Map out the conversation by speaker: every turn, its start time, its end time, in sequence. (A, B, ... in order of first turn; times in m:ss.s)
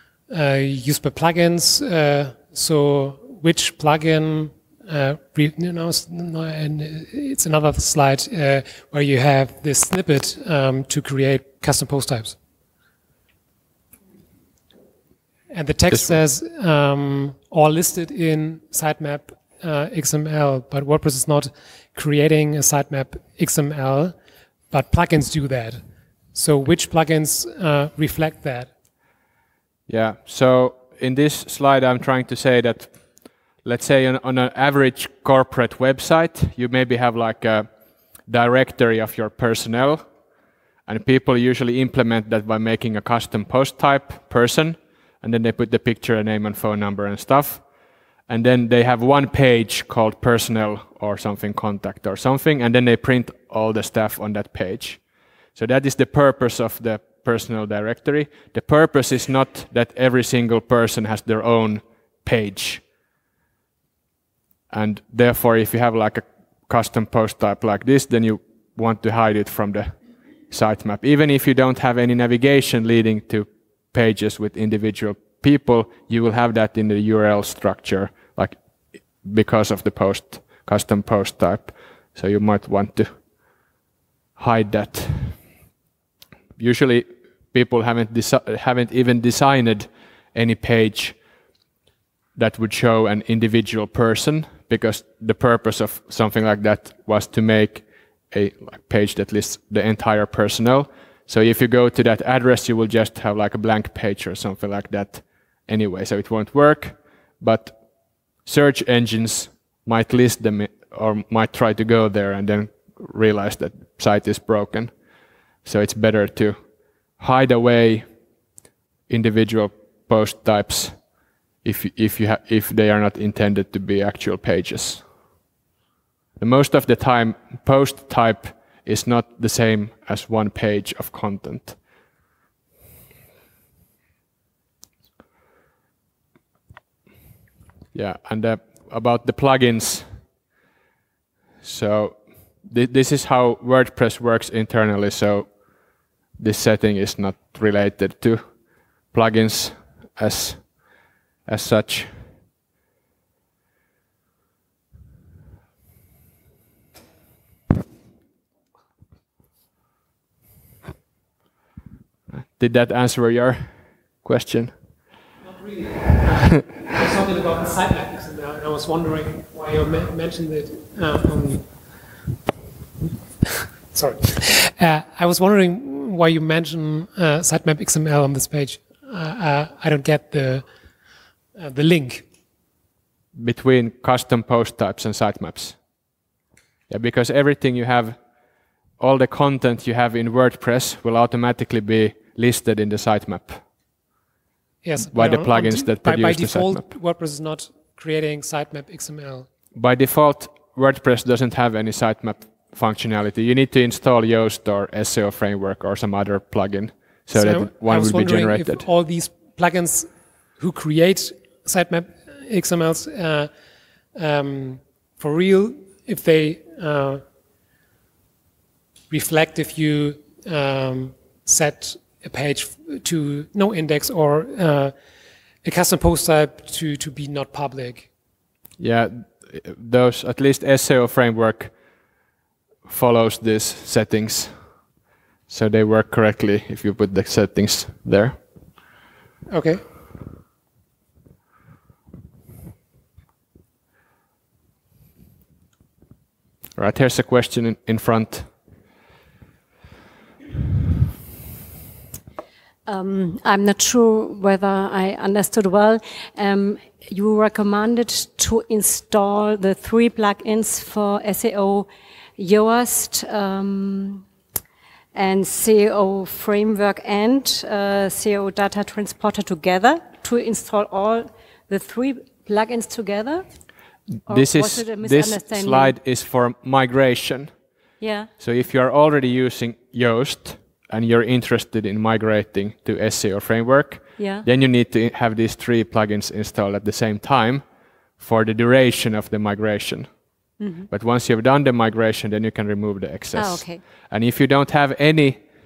0:00.3-0:12.4 A
0:15.5-0:24.2 A
0:15.9-0:16.2 B
0:24.7-0:25.8 A
0:26.3-0:28.7 A
0:29.9-0:32.9 B
0:33.6-0:37.7 B
0:38.2-0:40.0 B
0:40.8-0:47.6 B
0:48.3-0:55.0 B
0:55.5-1:02.8 B
1:04.7-1:10.0 B
1:10.5-1:18.6 B
1:19.2-1:23.2 B
1:24.4-1:25.4 B
1:26.6-1:31.2 B
1:32.4-1:47.8 B
1:48.4-1:54.9 B
1:55.6-1:56.6 B
1:57.2-1:58.1 B
1:59.1-2:01.0 B
2:01.6-2:05.0 B
2:06.4-2:11.8 B
2:17.9-2:20.2 B
2:21.6-2:25.7 B
2:26.4-2:32.2 B
2:42.4-2:44.8 B
2:45.4-2:52.1 A
2:53.7-3:00.7 A
3:01.5-3:02.2 A
3:03.3-3:05.8 B
3:06.9-3:08.2 B
3:09.0-3:13.6 B
3:14.8-3:19.5 A
3:15.0-3:16.9 B
3:19.7-3:28.8 B
3:27.3-3:33.5 A
3:34.1-3:37.2 A
3:39.1-3:44.9 A
3:45.6-3:48.1 A
3:48.8-3:51.7 B
3:52.9-3:54.7 B
3:55.5-3:58.4 B
3:59.5-3:59.8 A
4:06.8-4:08.5 B
4:12.8-4:24.2 C
4:25.1-4:33.4 C
4:34.1-4:37.5 B
4:34.3-4:35.9 C
4:38.0-4:38.3 C
4:38.4-4:47.6 B
4:44.2-4:44.4 C
4:48.2-4:50.1 B
4:50.6-4:50.9 C
4:50.9-4:55.4 B
4:53.4-4:53.8 C